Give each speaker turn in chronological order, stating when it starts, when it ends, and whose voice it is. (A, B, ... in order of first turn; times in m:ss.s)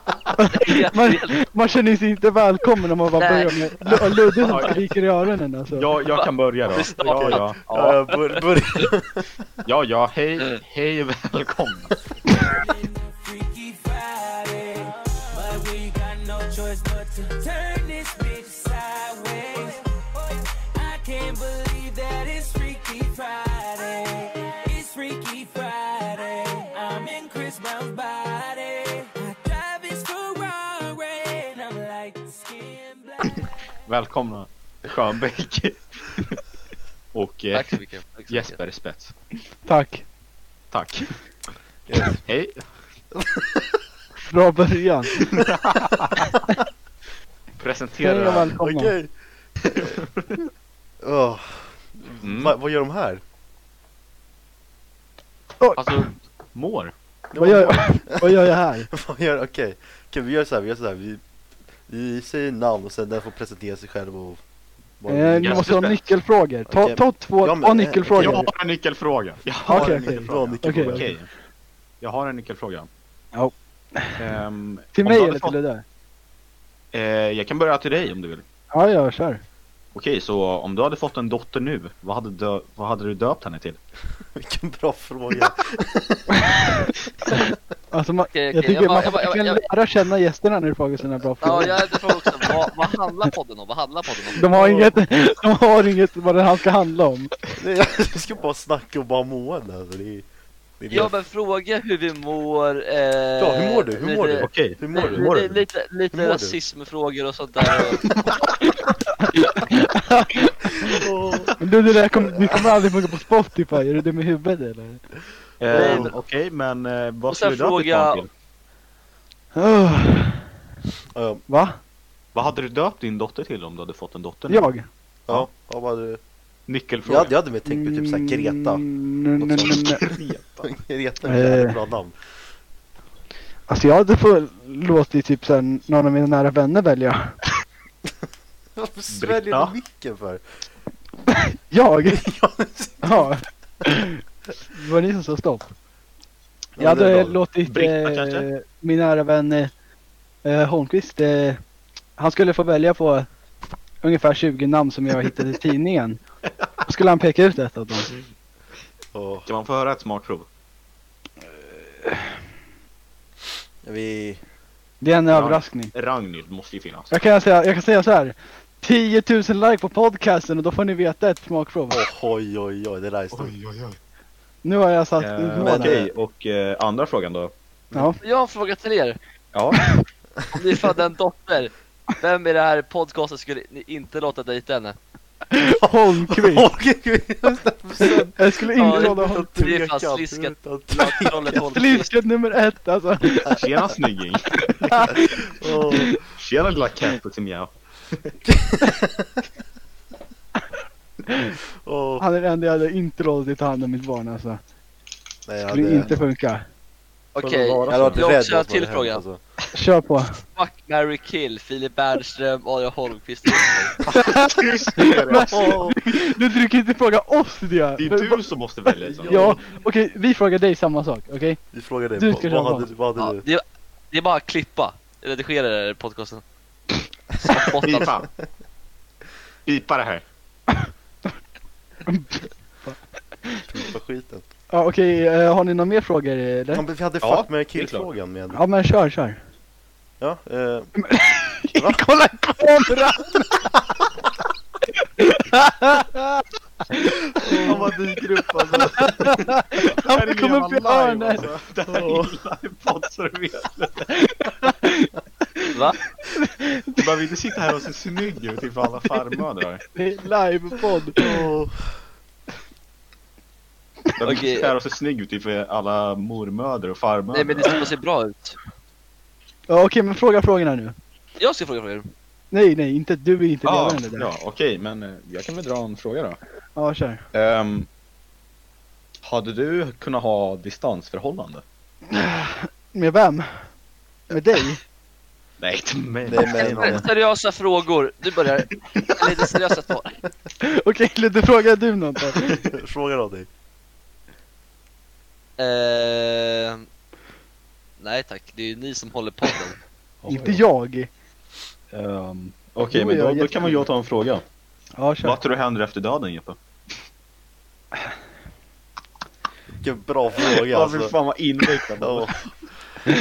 0:00.4-0:05.9 A
0:00.5-0:01.4 B
0:03.2-0:03.6 B
0:04.4-0:04.8 C
0:05.7-0:08.0 C
0:06.1-0:07.5 B
0:07.0-0:09.5 D
0:09.6-0:12.0 C
0:12.3-0:33.5 E
0:33.9-0:36.4 C
0:37.1-0:39.2 C
0:37.5-0:38.6 B
0:39.6-0:40.0 A
0:40.7-0:41.2 C
0:41.9-0:42.2 D
0:42.2-0:42.7 C
0:43.2-0:43.8 D
0:44.3-0:45.2 A
0:45.2-0:46.3 C
0:47.6-0:48.6 C
0:48.0-0:49.0 A
0:48.6-0:49.1 D
0:49.7-0:50.4 C
0:51.0-0:53.2 D
0:52.2-0:52.5 C
0:55.6-0:56.1 A
0:55.8-0:56.9 C
0:57.3-1:01.2 D
0:57.4-0:58.9 A
1:01.8-1:04.4 D
1:05.0-1:05.8 D
1:05.1-1:08.5 A
1:05.4-1:06.0 C
1:06.6-1:08.5 D
1:08.2-1:11.3 C
1:09.6-1:11.1 D
1:09.7-1:11.1 A
1:12.0-1:12.9 C
1:13.3-1:14.2 A
1:14.2-1:15.6 C
1:14.9-1:15.8 A
1:16.9-1:18.4 C
1:18.7-1:19.4 A
1:19.9-1:23.8 C
1:24.2-1:26.7 D
1:26.4-1:26.7 A
1:27.9-1:32.0 A
1:28.3-1:29.7 B
1:31.4-1:34.4 B
1:34.4-1:37.3 A
1:34.5-1:35.0 D
1:37.6-1:40.3 D
1:40.8-1:41.1 D
1:40.9-1:48.0 B
1:43.4-1:46.6 D
1:44.4-1:45.6 C
1:49.2-1:51.0 A
1:50.9-1:51.6 D
1:51.6-1:55.1 A
1:52.2-1:52.7 D
1:55.6-1:58.3 C
1:55.6-1:56.1 D
1:55.7-1:56.1 B
1:57.3-1:58.2 B
1:59.6-2:00.4 A
2:01.1-2:01.4 D
2:01.5-2:01.8 A
2:02.3-2:04.7 C
2:04.5-2:04.9 A
2:05.3-2:06.2 D
2:06.7-2:07.3 C
2:07.0-2:08.8 D
2:07.7-2:10.0 A
2:09.4-2:09.8 D
2:09.4-2:10.8 C
2:10.6-2:12.2 D
2:11.2-2:11.8 A
2:13.7-2:17.4 A
2:18.8-2:20.4 D
2:19.1-2:19.7 C
2:21.7-2:22.2 A
2:22.1-2:23.3 D
2:23.0-2:25.7 A
2:26.8-2:27.4 D
2:26.8-2:29.7 A
2:27.6-2:28.5 C
2:30.4-2:31.6 A
2:32.2-2:33.3 A
2:34.0-2:36.2 A
2:36.8-2:38.1 A
2:39.1-2:39.5 D
2:39.5-2:40.5 C
2:42.0-2:42.4 A
2:43.8-2:44.4 D
2:45.0-2:45.9 A
2:45.3-2:47.1 C
2:47.1-2:52.0 A
2:51.9-2:53.6 D
2:53.3-2:54.0 C
2:54.6-2:56.0 A
2:55.2-2:57.5 C
2:55.6-2:56.1 D
2:57.9-2:58.2 A
2:58.2-2:59.2 B
2:59.5-2:59.8 C
3:00.5-3:05.0 B
3:05.5-3:06.7 A
3:06.2-3:11.6 D
3:08.4-3:09.5 A
3:08.8-3:12.1 B
3:11.6-3:13.6 A
3:13.5-3:15.1 C
3:14.6-3:15.1 A
3:15.0-3:16.2 D
3:16.3-3:18.3 C
3:18.4-3:19.4 D
3:21.8-3:22.2 D
3:22.2-3:24.6 A
3:25.5-3:26.2 D
3:25.7-3:26.7 A
3:27.4-3:29.2 B
3:27.4-3:28.3 C
3:27.8-3:29.4 D
3:29.7-3:30.4 A
3:30.6-3:34.0 B
3:34.0-3:35.8 C
3:34.1-3:38.4 A
3:35.5-3:36.0 D
3:38.0-3:39.5 C
3:39.0-3:39.7 D
3:39.2-3:41.6 A
3:41.7-3:43.4 D
3:42.2-3:42.9 A
3:43.2-3:46.4 B
3:47.4-3:48.1 B
3:47.8-3:48.3 C
3:49.7-3:50.2 C
3:52.1-3:53.6 A
3:53.7-3:54.4 D
3:54.7-3:56.8 A
3:56.7-3:58.6 D
3:57.2-3:58.1 C
3:58.5-3:59.4 A
4:00.2-4:00.9 D
4:01.0-4:03.4 A
4:01.8-4:02.1 D
4:05.2-4:06.4 A
4:07.4-4:08.0 D
4:07.4-4:14.2 C
4:09.0-4:11.4 A
4:11.9-4:12.4 D
4:14.1-4:15.7 A
4:16.4-4:17.0 A
4:17.0-4:19.8 C
4:19.9-4:21.4 A
4:21.2-4:22.0 D
4:24.2-4:27.9 C
4:24.2-4:24.7 B
4:27.3-4:28.6 B
4:29.7-4:31.0 A
4:31.4-4:32.1 B
4:32.5-4:34.3 A
4:33.6-4:36.4 C
4:36.8-4:37.2 A
4:37.3-4:37.9 C
4:39.2-4:41.6 C
4:42.1-4:43.7 A
4:44.3-4:44.8 A
4:45.6-4:47.1 C
4:46.2-4:47.1 D
4:46.8-4:50.2 B
4:48.9-4:49.2 C
4:50.6-4:52.5 A
4:52.7-4:53.5 D
4:55.6-4:56.9 B
4:58.0-4:59.8 B
5:00.2-5:00.6 D
5:00.2-5:00.5 C
5:00.3-5:01.1 A
5:01.9-5:04.4 C
5:02.9-5:03.8 A
5:05.0-5:05.4 A
5:05.2-5:06.6 C
5:09.7-5:11.2 D
5:10.4-5:12.5 C
5:12.0-5:12.4 D